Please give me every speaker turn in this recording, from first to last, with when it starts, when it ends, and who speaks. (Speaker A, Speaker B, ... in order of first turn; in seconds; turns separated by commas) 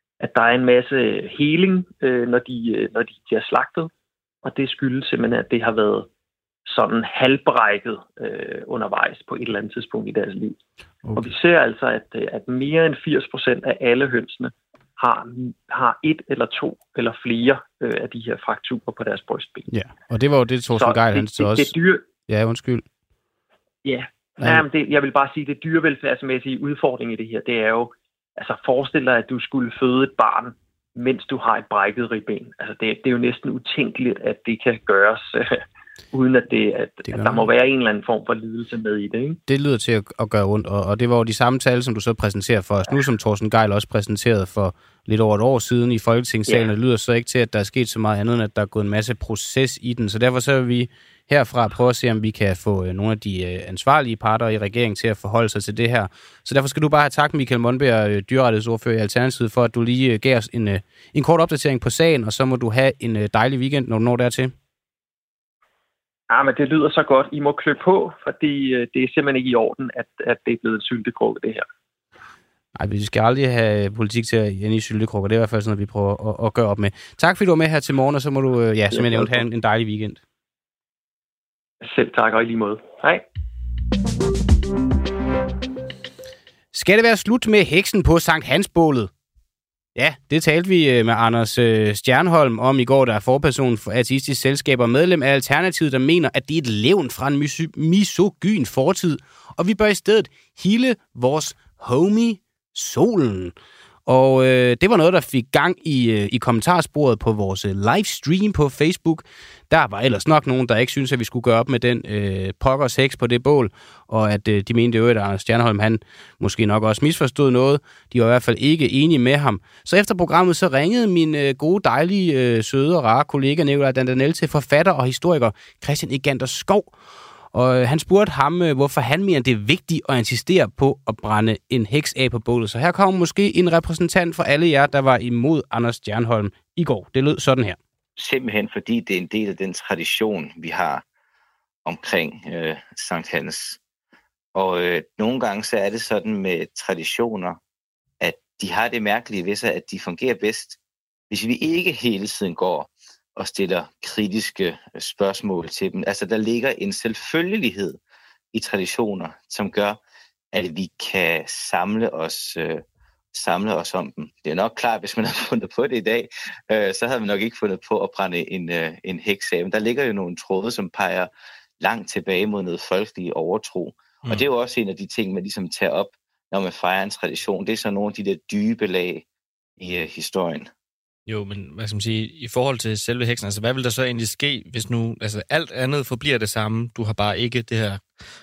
Speaker A: 0.2-3.9, Speaker A: 4.4-6.1, Speaker A: 6.7-10.6, Speaker B: 11.0-11.3, Speaker A: 11.2-19.7, Speaker B: 19.7-21.7, Speaker A: 20.8-22.0, Speaker B: 22.3-22.9, Speaker A: 23.8-39.4, Speaker B: 37.1-37.5, Speaker B: 39.5-64.5, Speaker A: 66.3-71.7, Speaker B: 72.8-80.2, Speaker A: 78.9-79.4, Speaker A: 81.8-83.2, Speaker B: 86.7-89.1, Speaker B: 90.0-103.5, Speaker B: 104.1-126.9, Speaker B: 127.5-137.8, Speaker C: 138.2-141.0, Speaker C: 141.9-143.8, Speaker C: 144.6-147.6, Speaker C: 148.2-150.8, Speaker C: 151.3-158.0, Speaker C: 158.5-160.0, Speaker C: 160.5-179.2, Speaker C: 179.8-180.7, Speaker D: 181.3-188.1